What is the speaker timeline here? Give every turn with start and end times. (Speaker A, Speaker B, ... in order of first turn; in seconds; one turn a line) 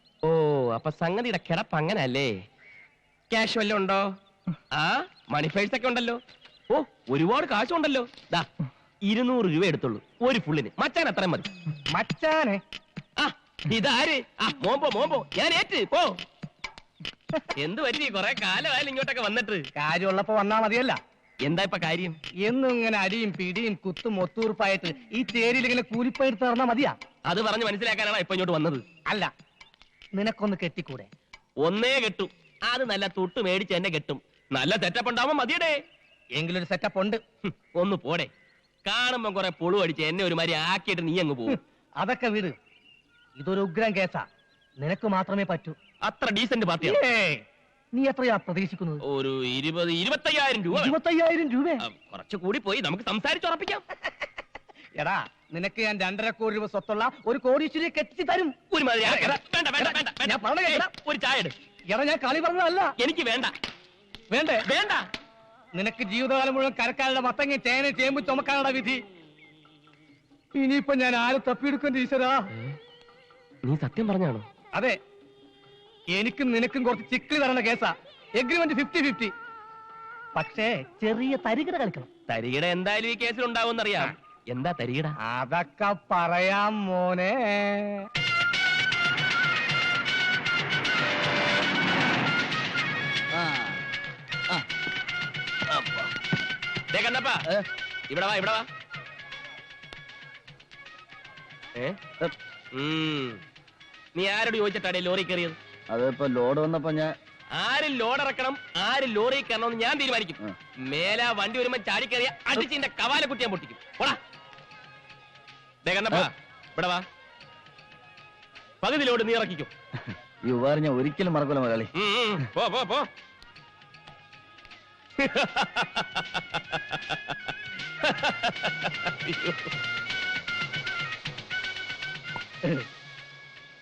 Speaker A: 0.3-2.3
Speaker A: 3.3-4.1
Speaker A: 4.8-6.2
Speaker A: 6.7-8.5
Speaker A: 9.1-11.5
Speaker B: 11.9-12.6
Speaker A: 13.2-16.1
Speaker A: 17.6-19.7
Speaker B: 19.8-21.0
Speaker A: 21.4-22.2
Speaker B: 22.4-27.0
Speaker A: 27.3-28.8
Speaker B: 30.1-31.1
Speaker A: 31.6-35.8
Speaker B: 36.4-37.2
Speaker A: 37.4-38.3
Speaker A: 38.9-41.6
Speaker B: 41.5-42.6
Speaker B: 43.4-44.3
Speaker B: 44.8-45.8
Speaker A: 46.0-47.0
Speaker B: 46.8-47.4
Speaker B: 48.0-49.0
Speaker A: 49.1-51.0
Speaker B: 50.8-51.8
Speaker A: 51.8-53.9
Speaker B: 55.0-60.9
Speaker A: 58.7-61.5
Speaker B: 61.9-62.9
Speaker A: 63.0-63.5
Speaker B: 64.3-64.7
Speaker A: 64.7-65.1
Speaker B: 65.7-69.0
Speaker B: 70.5-72.5
Speaker A: 73.7-74.5
Speaker B: 74.7-75.0
Speaker B: 76.1-79.3
Speaker B: 80.3-82.0
Speaker A: 82.3-85.1
Speaker B: 85.2-88.1
Speaker C: 93.3-93.8
Speaker A: 96.9-97.4
Speaker A: 98.1-98.7
Speaker A: 102.7-103.4
Speaker A: 104.2-105.6
Speaker C: 105.9-107.1
Speaker A: 107.5-114.2
Speaker A: 115.8-117.0
Speaker A: 118.8-119.7
Speaker C: 120.4-121.9
Speaker A: 122.0-123.1
Speaker A: 125.2-127.3
Speaker A: 128.0-129.7